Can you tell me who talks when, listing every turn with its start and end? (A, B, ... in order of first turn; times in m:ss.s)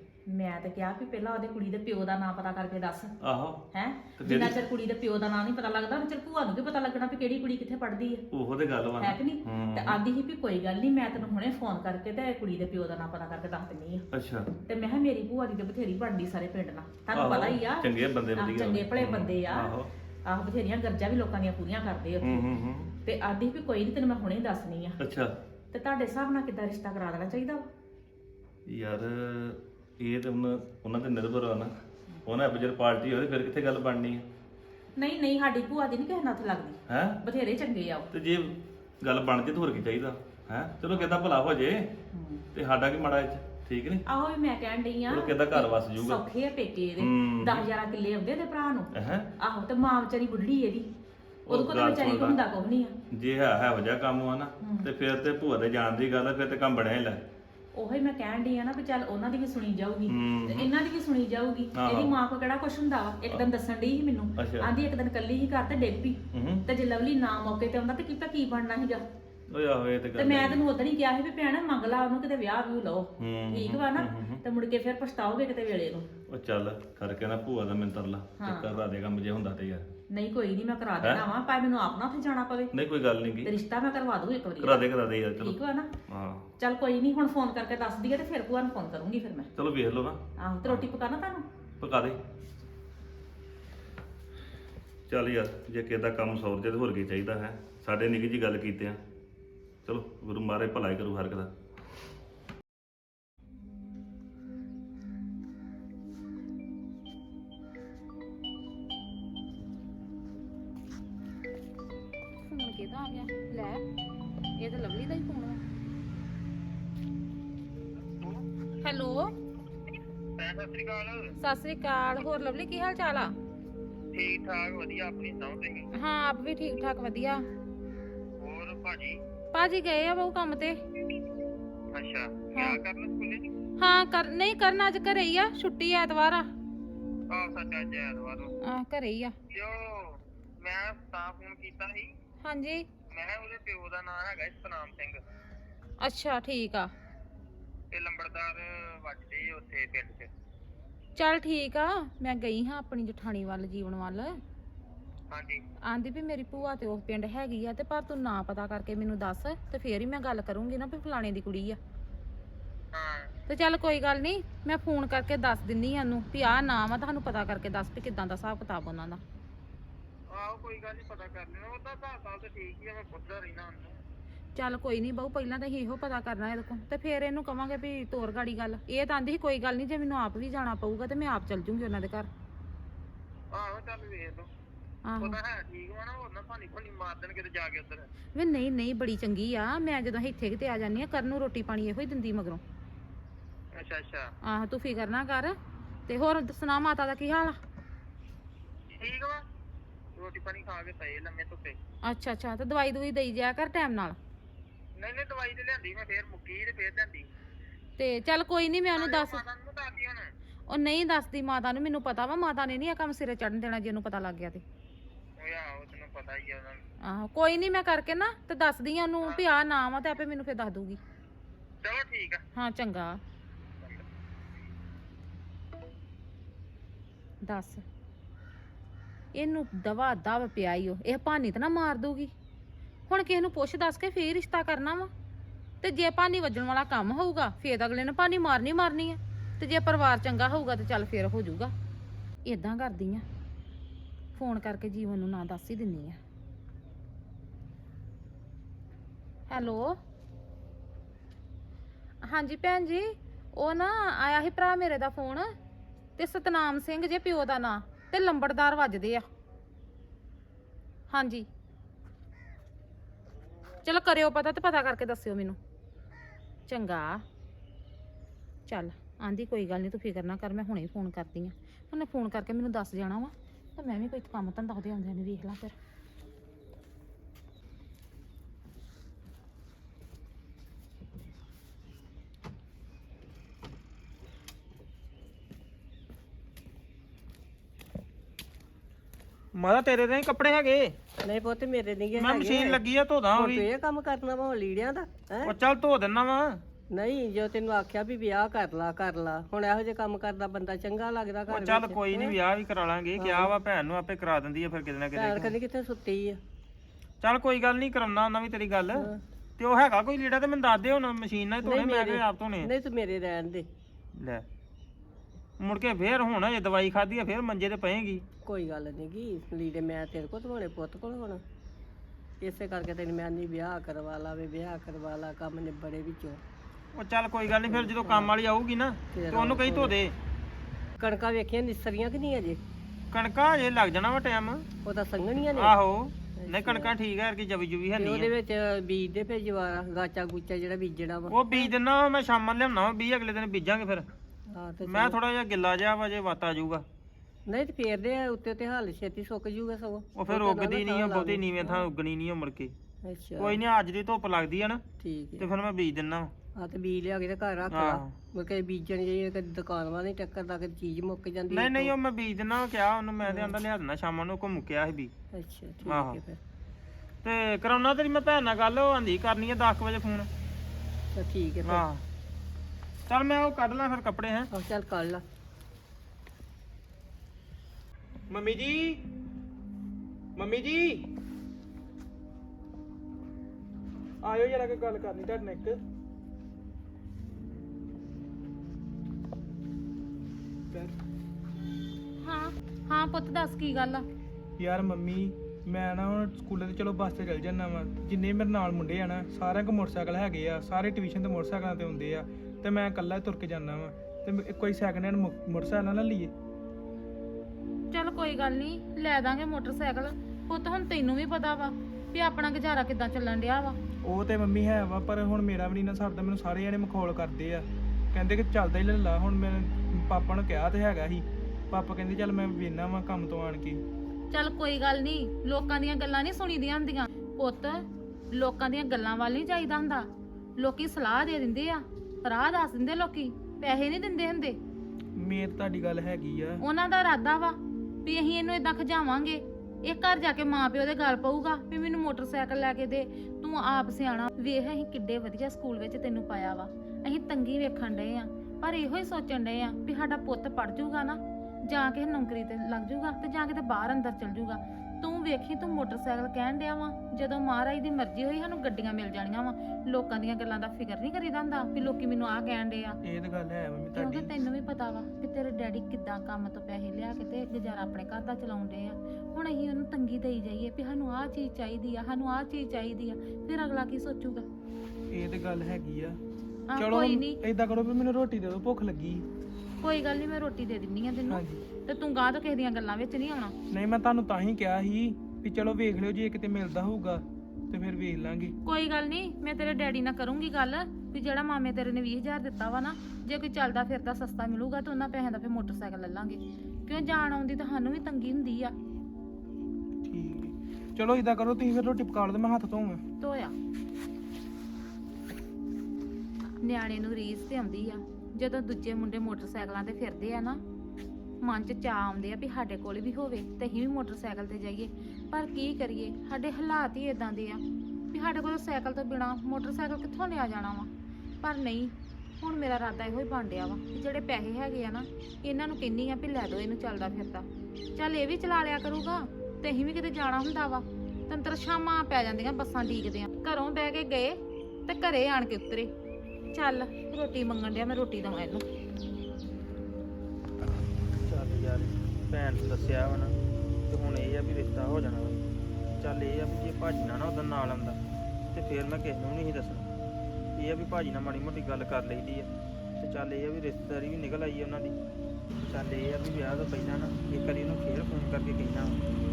0:00.3-0:03.1 A
0:03.2-0:03.6 B
0:03.7-0:08.2 A
0:04.2-0:04.6 B
0:08.3-0:10.0 B
0:09.0-0:14.0 A
0:14.1-0:14.5 B
0:14.6-0:19.7 A
0:17.1-0:19.9 B
0:20.2-0:25.0 A
0:22.2-0:22.9 B
0:25.0-0:25.3 B
0:25.7-0:27.7 A
0:28.7-0:31.7 B
0:32.2-0:34.3 B
0:35.0-0:38.1 A
0:36.9-0:37.2 B
0:38.1-0:41.9 B
0:40.9-0:41.2 A
0:42.1-0:42.4 A
0:42.5-0:44.0 B
0:44.0-0:50.9 A
0:45.1-0:46.2 B
0:47.0-0:47.6 B
0:49.0-0:49.3 B
0:51.5-0:52.4 B
0:51.5-0:52.9 A
0:53.1-0:57.2 B
0:54.6-0:54.9 A
0:57.7-1:09.0 A
1:00.1-1:00.7 B
1:01.7-1:02.1 B
1:04.4-1:04.7 B
1:06.3-1:06.6 B
1:09.5-1:10.6 B
1:10.2-1:16.1 A
1:13.2-1:14.4 B
1:16.3-1:19.8 B
1:18.4-1:18.7 A
1:20.1-1:22.7 A
1:22.7-1:23.5 B
1:23.4-1:25.9 A
1:24.6-1:26.5 B
1:26.6-1:29.5 A
1:29.5-1:30.8 B
1:30.4-1:31.4 A
1:31.8-1:32.2 B
1:35.1-1:39.0 B
1:39.8-1:41.5 B
1:52.4-1:53.8 C
1:54.6-1:55.6 C
1:58.8-1:59.3 C
2:00.4-2:01.3 D
2:01.4-2:03.3 C
2:04.1-2:05.9 D
2:06.0-2:07.4 C
2:08.4-2:09.2 D
2:09.5-2:10.8 C
2:11.9-2:13.5 D
2:12.5-2:12.8 C
2:13.8-2:16.5 C
2:17.3-2:18.5 D
2:18.6-2:19.3 C
2:19.5-2:22.1 D
2:22.4-2:22.9 C
2:23.1-2:25.2 D
2:26.0-2:26.9 C
2:27.9-2:30.3 D
2:31.2-2:34.4 C
2:35.3-2:35.6 D
2:35.9-2:41.8 C
2:42.9-2:43.3 D
2:43.5-2:49.2 C
2:50.3-2:54.0 D
2:54.6-3:02.3 C
3:03.5-3:04.5 D
3:05.1-3:05.4 C
3:05.2-3:08.1 D
3:08.3-3:12.6 C
3:13.7-3:14.3 D
3:14.4-3:15.5 C
3:16.1-3:17.6 C
3:18.9-3:19.4 D
3:20.2-3:21.8 D
3:22.0-3:24.2 C
3:25.0-3:27.3 D
3:28.0-3:29.4 C
3:28.9-3:30.3 D
3:30.7-3:34.6 C
3:35.4-3:36.8 D
3:37.0-3:41.0 C
3:41.8-3:42.4 D
3:42.5-3:43.2 C
3:47.4-3:47.8 C
3:49.3-3:52.3 C
3:53.1-3:55.1 C
3:55.8-4:01.7 C
4:02.4-4:03.2 C
4:04.4-4:06.2 C
4:09.5-4:10.0 C
4:12.3-4:15.5 C
4:16.2-4:19.2 C
4:21.1-4:21.4 C
4:23.8-4:25.6 C
4:26.7-4:27.2 C
4:28.7-4:35.7 C
4:49.6-4:50.9 E
4:51.2-4:52.8 F
4:52.2-4:53.7 E
4:53.3-4:55.5 F
4:55.4-4:56.6 E
4:56.9-5:02.3 F
5:01.5-5:05.6 E
5:03.2-5:03.6 F
5:05.1-5:06.4 F
5:07.2-5:12.7 E
5:09.0-5:09.2 F
5:11.6-5:13.7 F
5:14.2-5:14.4 E
5:15.6-5:18.2 E
5:18.4-5:21.4 F
5:22.4-5:26.4 F
5:27.0-5:30.1 E
5:27.6-5:28.3 F
5:29.1-5:30.0 F
5:31.0-5:32.6 F
5:33.1-5:34.6 E
5:34.8-5:35.8 F
5:35.4-5:38.3 E
5:36.4-5:36.9 F
5:38.0-5:41.7 F
5:41.3-5:44.0 E
5:44.5-5:45.2 F
5:44.8-5:46.8 E
5:47.5-5:51.8 F
5:50.2-5:52.7 E
5:53.0-5:53.6 F
5:53.4-5:54.8 E
5:55.0-5:55.5 F
5:55.4-5:56.3 E
5:56.6-6:01.9 F
5:57.7-5:58.1 E
6:01.5-6:05.1 E
6:03.2-6:03.5 F
6:05.3-6:06.4 F
6:05.8-6:06.2 E
6:07.2-6:10.3 E
6:11.1-6:11.8 F
6:11.6-6:12.0 E
6:13.1-6:14.5 E
6:14.5-6:15.2 F
6:18.3-6:19.0 G
6:20.4-6:21.0 G
6:24.2-6:25.8 G
6:32.2-6:34.0 C
6:34.6-6:46.3 G
6:47.9-6:53.8 C
6:54.0-7:03.8 G
7:04.3-7:14.6 C
7:15.2-7:16.6 G
7:16.6-7:43.0 C
7:43.0-7:44.3 G
7:43.9-7:54.4 C
7:55.1-7:56.2 G
7:56.7-7:57.4 C
7:56.8-7:59.2 G
7:59.8-8:03.5 C
8:01.3-8:01.6 G
8:03.7-8:08.5 G
8:08.6-8:18.7 C
8:20.1-8:23.0 G
8:23.2-8:23.5 C
8:26.6-8:30.6 C
8:31.4-8:40.9 C
8:41.4-8:55.9 C
8:56.5-8:58.6 C
9:01.2-9:03.3 E
9:03.9-9:05.4 E
9:05.9-9:08.0 E
9:08.5-9:09.9 E
9:10.6-9:14.9 E
9:15.6-9:19.0 E